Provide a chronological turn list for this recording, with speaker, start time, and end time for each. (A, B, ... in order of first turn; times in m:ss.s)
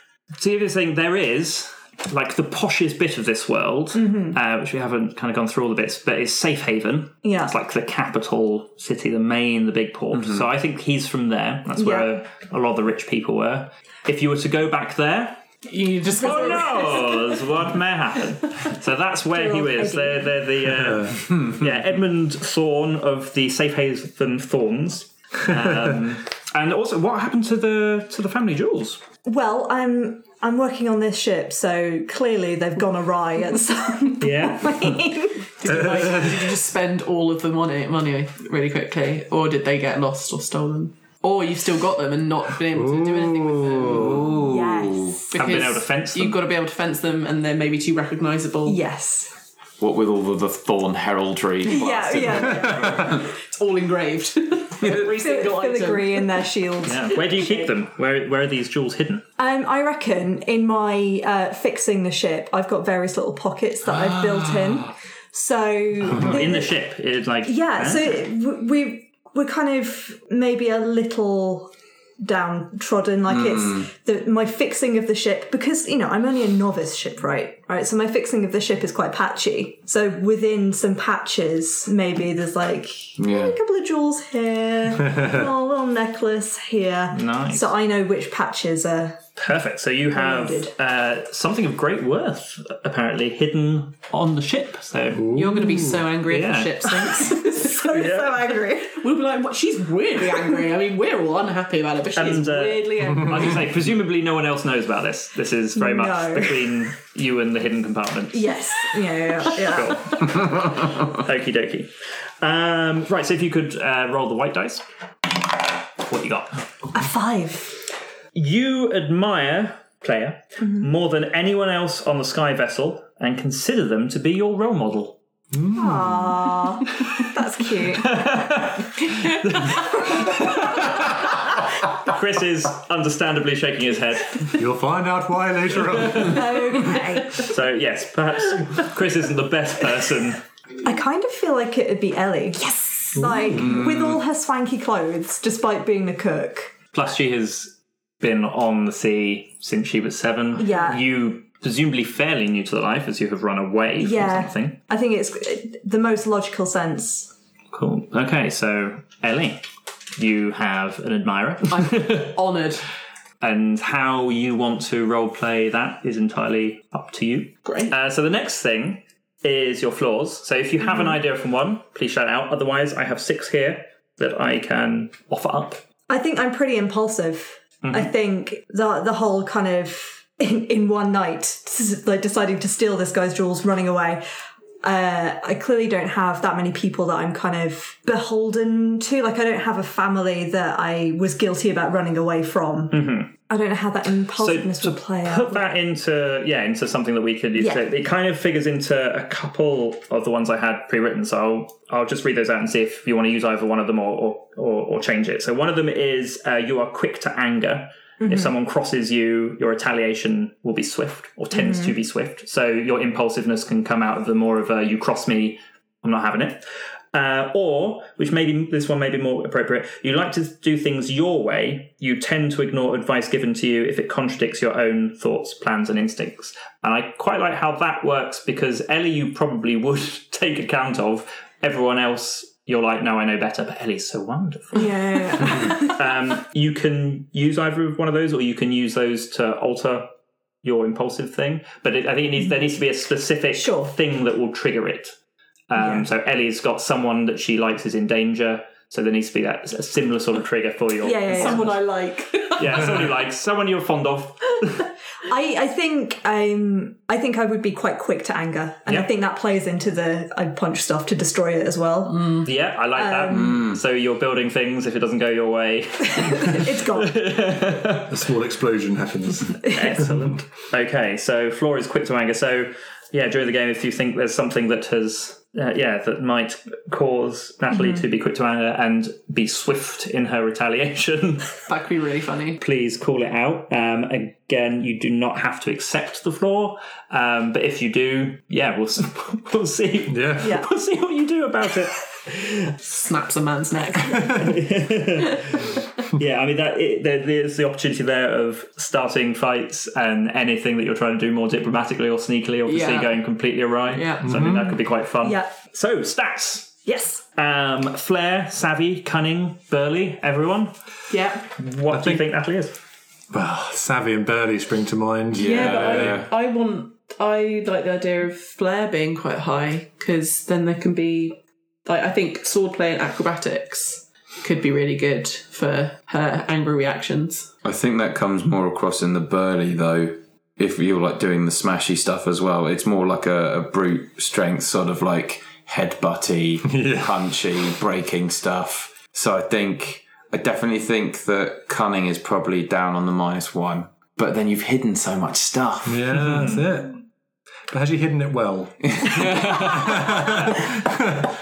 0:00.4-0:15.4 A
0:03.9-0:04.4 B
0:07.2-0:07.5 B
0:10.1-0:10.4 C
0:11.7-0:12.1 B
0:15.6-0:17.4 D
0:16.2-0:29.0 A
0:19.3-0:20.3 B
0:20.7-0:21.1 E
0:29.2-0:35.5 B
0:34.2-0:34.7 A
0:35.6-0:44.0 D
0:35.6-0:36.6 E
0:42.7-0:44.2 E
0:43.8-0:45.2 C
0:44.2-0:45.4 B
0:45.3-0:48.8 D
0:45.3-0:46.4 A
0:48.6-0:49.3 B
0:49.8-0:53.0 C
0:51.6-0:53.1 B
0:52.5-0:53.1 E
0:53.2-0:56.4 D
0:55.2-0:57.7 B
0:56.8-0:59.2 A
0:59.4-1:06.8 B
1:06.1-1:08.2 A
1:07.4-1:29.2 B
1:23.2-1:23.5 C
1:27.1-1:27.7 A
1:29.4-1:35.3 A
1:30.1-1:30.7 B
1:35.1-1:36.0 E
1:35.3-1:37.7 D
1:36.2-1:37.3 A
1:37.3-1:39.0 B
1:37.9-1:38.4 A
1:39.0-1:43.5 D
1:42.2-1:48.4 A
1:45.7-1:46.8 B
1:48.3-1:50.1 B
1:49.6-1:51.9 A
1:52.4-1:54.8 A
1:56.0-1:56.6 A
1:56.9-1:57.7 B
1:58.3-2:05.2 A
2:05.5-2:06.3 E
2:05.7-2:08.1 B
2:08.0-2:14.4 A
2:14.6-2:16.8 E
2:16.3-2:17.4 B
2:17.4-2:20.4 A
2:20.8-2:26.7 B
2:23.2-2:23.6 E
2:23.8-2:24.0 C
2:26.9-2:34.8 A
2:30.5-2:31.0 B
2:34.0-2:37.3 B
2:37.7-2:39.6 A
2:40.2-2:42.2 A
2:41.7-2:42.9 D
2:43.4-2:55.8 A
2:47.6-2:47.9 D
2:56.1-3:04.2 B
2:57.8-2:58.1 A
3:04.8-3:15.7 B
3:12.9-3:13.3 A
3:14.4-4:00.1 A
3:17.6-3:17.9 B
3:28.2-3:28.5 B
3:31.5-3:31.9 B
3:54.7-3:55.9 B
4:00.6-4:05.1 A
4:03.5-4:03.9 B
4:05.7-4:11.7 A
4:05.8-4:06.1 B
4:11.0-4:11.7 B
4:11.4-4:13.2 D
4:12.6-4:14.9 A
4:15.2-4:23.7 B
4:22.4-4:28.2 A
4:23.3-4:23.8 C
4:26.1-4:27.3 B
4:28.0-4:30.3 E
4:29.6-4:30.0 B
4:29.7-4:41.5 A
4:41.6-4:42.6 D
4:42.6-4:52.8 A
4:50.1-4:50.5 E
4:52.9-4:54.2 D
4:54.2-5:06.8 A
5:02.6-5:03.2 D
5:03.9-5:04.3 D
5:04.2-5:04.8 E
5:05.2-5:05.5 B
5:06.8-5:07.2 B
5:07.4-5:10.7 A
5:11.1-5:11.5 B
5:11.6-5:12.8 A
5:11.9-5:12.3 E
5:13.3-5:16.2 E
5:15.3-5:16.3 C
5:15.4-5:27.5 D
5:27.6-5:46.1 C
5:36.6-5:37.3 E
5:45.8-5:47.0 E
5:46.2-5:46.6 A
5:47.7-5:51.3 E
5:48.8-5:50.1 C
5:50.2-5:50.6 A